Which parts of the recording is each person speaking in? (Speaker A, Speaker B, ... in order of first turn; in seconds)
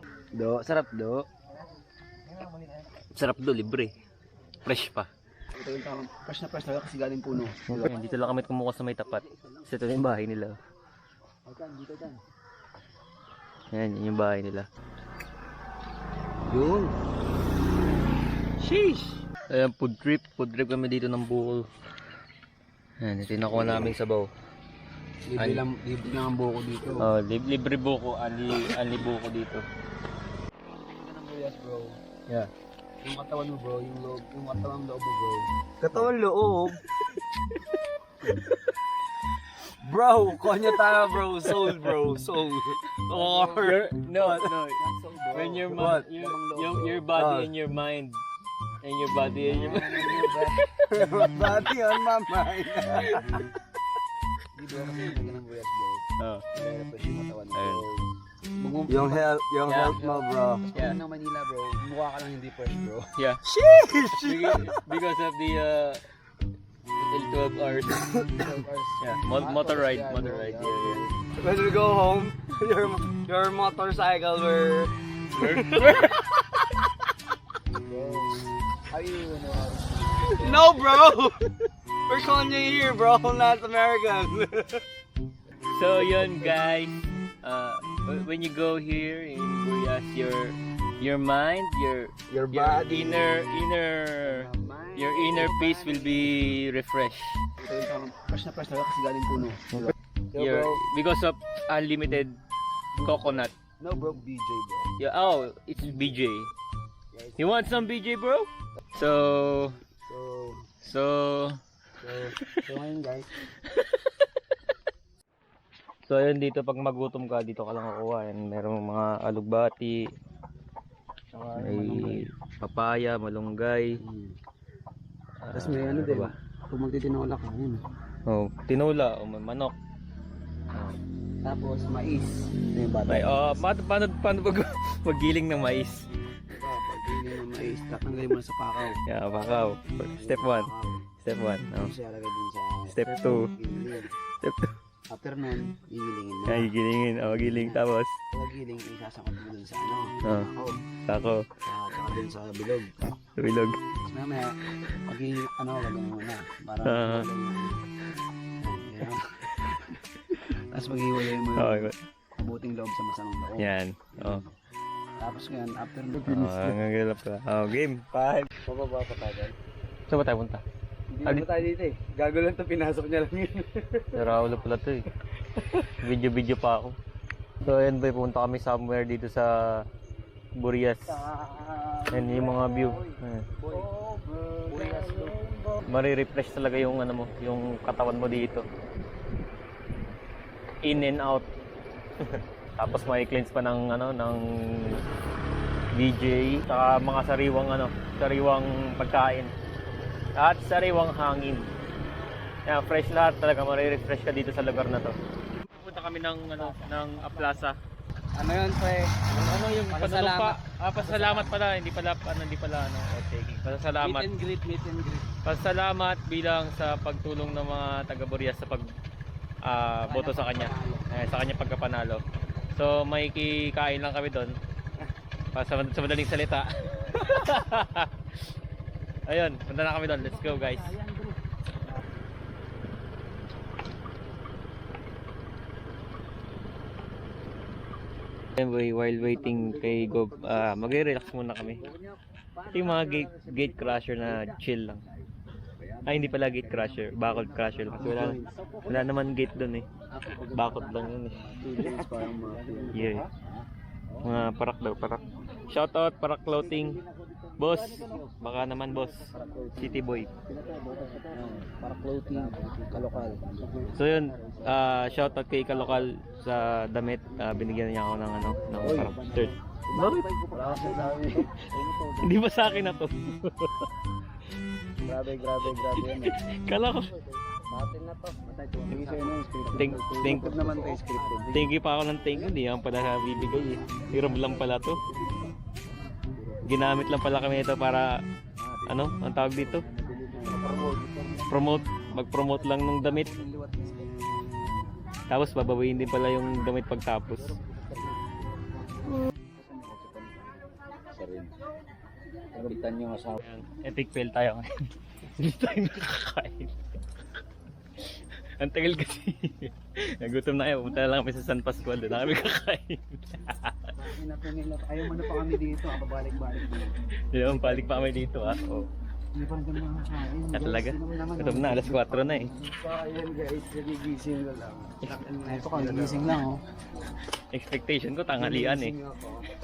Speaker A: 0.3-1.3, 5.5-8.0, 9.3-9.7, 11.5-12.2, 16.5-16.9, 25.3-27.1, 30.7-32.0, 33.0-35.5, 43.1-43.7, 44.3-47.1, 49.4-51.7, 54.5-58.1, 58.6-63.1, 68.4-71.2, 77.8-80.7, 94.2-96.3, 97.6-99.9, 103.0-104.9, 107.1-107.6, 110.1-110.7, 112.0-113.3, 121.3-122.2, 124.0-124.3, 125.5-127.8, 131.4-133.6, 136.6-139.0, 140.1-141.0, 141.7-144.1, 145.1-146.7, 148.3-150.8, 151.7-152.9, 154.1-154.6, 155.1-157.8, 158.6-164.5, 165.2-166.7, 168.7-169.5, 171.1-173.7, 181.3-185.6, 206.6-207.6, 208.4-209.3, 209.9-211.6, 214.0-215.2, 220.1-221.1, 230.5-231.3, 247.6-248.8, 250.2-250.8, 251.5-253.3, 259.3-264.6, 268.8-272.3, 275.1-276.4, 277.7-281.7, 284.0-285.4, 286.4-286.6, 289.8-291.4, 293.1-294.3, 297.6-298.3, 299.6-300.6, 301.2-301.5, 302.6-303.4, 314.0-316.9, 319.3-322.8, 324.1-324.8, 325.3-326.6, 328.4-329.3
Speaker B: 3.1-3.9, 4.7-5.1, 7.7-10.6, 13.7-14.7, 18.6-21.7, 23.0-24.3, 27.0-29.6, 43.4-44.8, 45.3-48.2, 48.8-50.6, 56.2-56.4, 57.5-57.9, 59.7-60.0, 63.2-63.4, 64.1-66.0, 67.0-68.1, 69.0-71.0, 75.3-76.4, 85.7-97.4, 99.7-102.4, 103.0-103.5, 105.0-106.5, 107.4-109.8, 110.8-111.6, 116.1-120.0, 121.5-124.0, 125.4-126.3, 128.3-129.8, 133.1-136.1, 139.1-141.9, 142.9-143.5, 144.4-144.7, 146.5-148.2, 150.2-150.5, 151.1-151.5, 153.4-153.8, 156.8-157.3, 161.6-162.0, 163.6-164.4, 166.2-168.5, 170.1-170.6, 174.1-175.1, 175.6-177.0, 177.6-179.9, 180.6-181.2, 182.1-183.5, 185.9-188.6, 190.8-191.5, 192.2-195.0, 195.9-199.5, 200.4-201.7, 202.7-205.2, 205.7-207.8, 209.3-214.3, 215.4-218.9, 219.6-224.6, 225.5-228.2, 229.3-231.0, 238.6-241.8, 242.7-245.1, 246.1-249.9, 250.5-251.5, 252.9-253.3, 254.2-257.0, 257.6-260.3, 263.9-270.3, 272.2-273.9, 275.8-277.1, 279.7-285.0, 286.6-288.1, 288.9-289.9, 291.5-293.3, 295.3-297.6, 303.4-304.7, 305.4-306.7, 308.6-313.8, 317.3-318.9, 320.5-322.5, 325.0-325.3, 327.5-329.0
Speaker C: 35.8-36.8, 39.8-44.5, 45.7-46.1, 47.1-47.5, 50.9-53.2, 58.9-60.6, 63.5-64.8, 71.4-74.9, 80.4-81.5, 82.1-84.8, 92.3-93.3, 100.3-100.8, 184.7-185.2, 278.9-279.3, 322.8-326.4